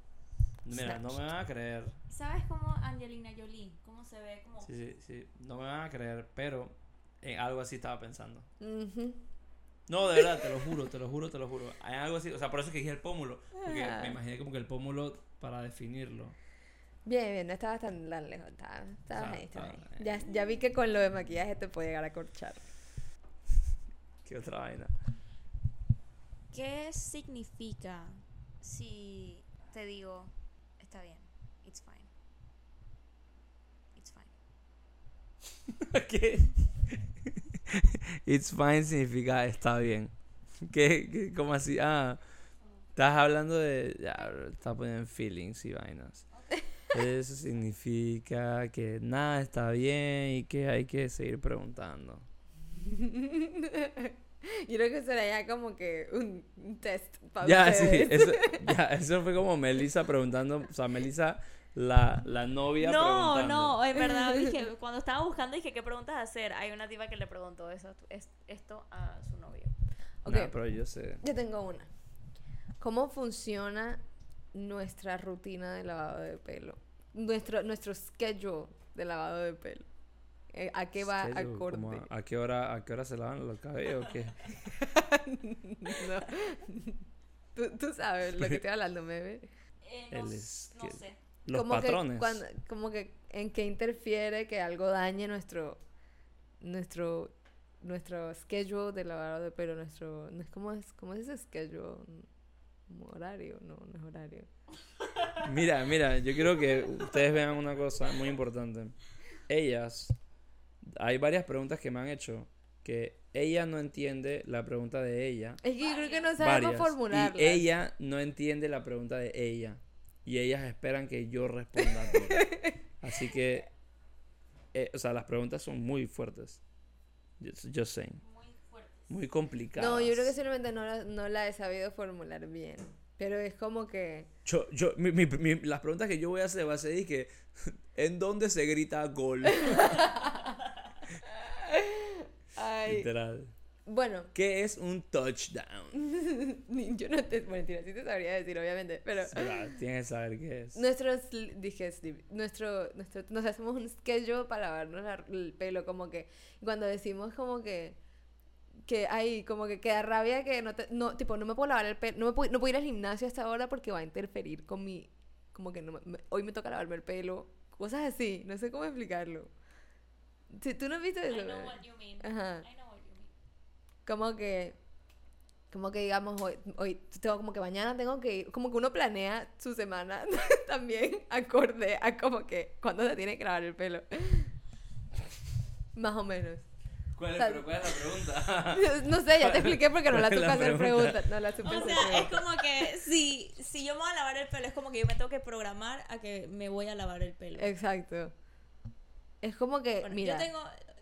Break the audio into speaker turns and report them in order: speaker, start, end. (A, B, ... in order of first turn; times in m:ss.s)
0:00.6-0:02.0 A
0:00.7-0:01.2 B
0:02.1-0:04.7 C
0:04.6-0:08.5 A
0:08.6-0:09.2 B
0:09.9-0:16.4 A
0:10.2-0:10.5 B
0:13.6-0:14.2 B
0:17.0-0:22.7 B
0:19.1-0:20.2 A
0:24.2-0:24.9 A
0:26.5-0:32.1 C
0:34.0-0:34.3 C
0:35.8-0:40.1 A
0:40.6-0:42.2 A
0:43.0-0:46.2 A
0:46.3-0:46.6 C
0:46.9-0:52.3 A
0:52.8-0:58.7 B
0:57.4-1:03.8 A
1:02.8-1:09.7 C
1:04.0-1:04.6 B
1:10.2-1:10.6 B
1:10.3-1:11.2 A
1:11.2-1:11.9 B
1:12.8-1:14.0 B
1:14.5-1:19.9 B
1:20.5-1:22.1 B
1:21.0-1:24.6 A
1:24.7-1:27.0 B
1:27.6-1:29.5 B
1:29.8-1:31.2 C
1:30.1-1:32.4 A
1:31.5-1:35.8 B
1:36.6-1:42.3 B
1:42.9-1:44.5 B
1:45.4-1:49.0 A
1:49.5-1:50.2 A
1:50.8-1:55.6 A
1:55.6-1:57.7 B
1:55.8-1:56.4 C
1:56.4-2:03.7 A
2:01.8-2:02.8 B
2:04.7-2:06.6 A
2:07.4-2:08.2 A
2:08.2-2:09.1 C
2:09.1-2:10.3 A
2:09.8-2:14.3 B
2:14.5-2:20.3 A
2:19.6-2:20.5 B
2:21.3-2:23.1 B
2:22.8-2:23.5 A
2:23.9-2:24.3 B
2:24.3-2:26.1 A
2:25.9-2:29.7 B
2:29.2-2:30.8 A
2:30.8-2:38.0 B
2:38.8-2:49.5 B
2:50.5-2:52.7 B
2:51.3-2:53.3 C
2:54.1-2:54.8 B
2:55.7-3:04.5 B
3:06.0-3:06.6 B
3:07.2-3:12.3 A
3:07.4-3:08.0 B
3:08.7-3:12.5 B
3:11.6-3:17.7 C
3:17.6-3:18.3 B
3:19.4-3:20.5 B
3:20.0-3:20.8 C